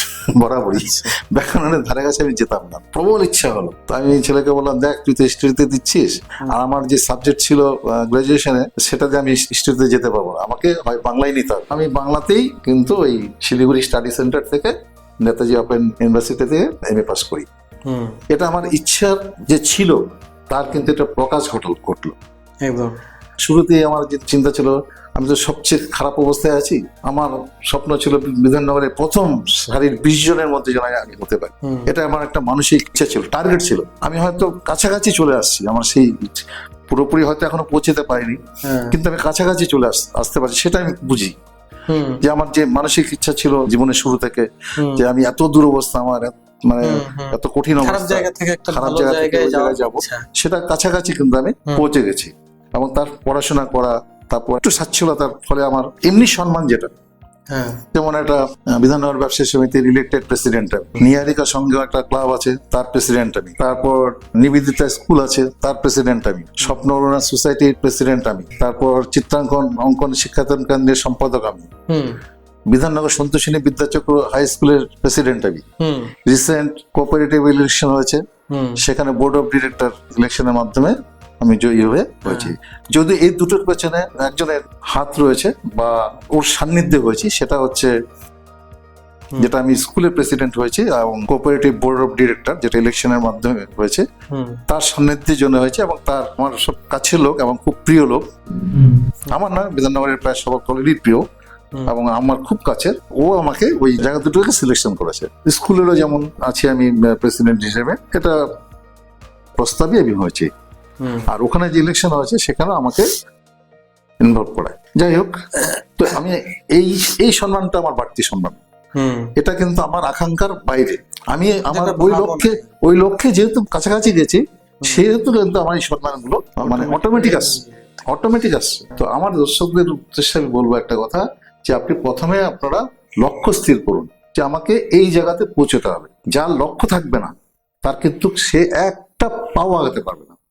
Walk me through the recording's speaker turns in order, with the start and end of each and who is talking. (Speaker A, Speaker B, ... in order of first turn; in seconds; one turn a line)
Speaker A: 0.3-17.4
Speaker B: 0.7-1.1
Speaker B: 17.9-18.2
Speaker A: 18.3-22.1
Speaker B: 22.6-22.9
Speaker A: 23.4-38.4
Speaker B: 31.6-31.9
Speaker B: 38.6-39.0
Speaker A: 38.9-41.4
Speaker B: 41.9-42.2
Speaker A: 42.2-56.9
Speaker B: 44.8-45.0
Speaker B: 46.8-50.2
Speaker B: 57.5-57.8
Speaker A: 57.9-71.7
Speaker B: 71.9-72.2
Speaker A: 72.7-75.6
Speaker B: 75.8-76.1
Speaker A: 76.2-78.2
Speaker B: 78.5-78.8
Speaker A: 78.8-87.9
Speaker B: 82.2-82.5
Speaker A: 89.4-94.0
Speaker B: 94.3-94.6
Speaker A: 94.7-101.2
Speaker A: 101.8-108.4
Speaker A: 109.6-110.5
Speaker B: 111.0-111.3
Speaker A: 111.3-113.1
Speaker A: 114.2-118.6
Speaker B: 118.9-119.3
Speaker A: 119.3-137.3
Speaker B: 121.7-122.7
Speaker B: 126.6-127.7
Speaker A: 137.8-140.3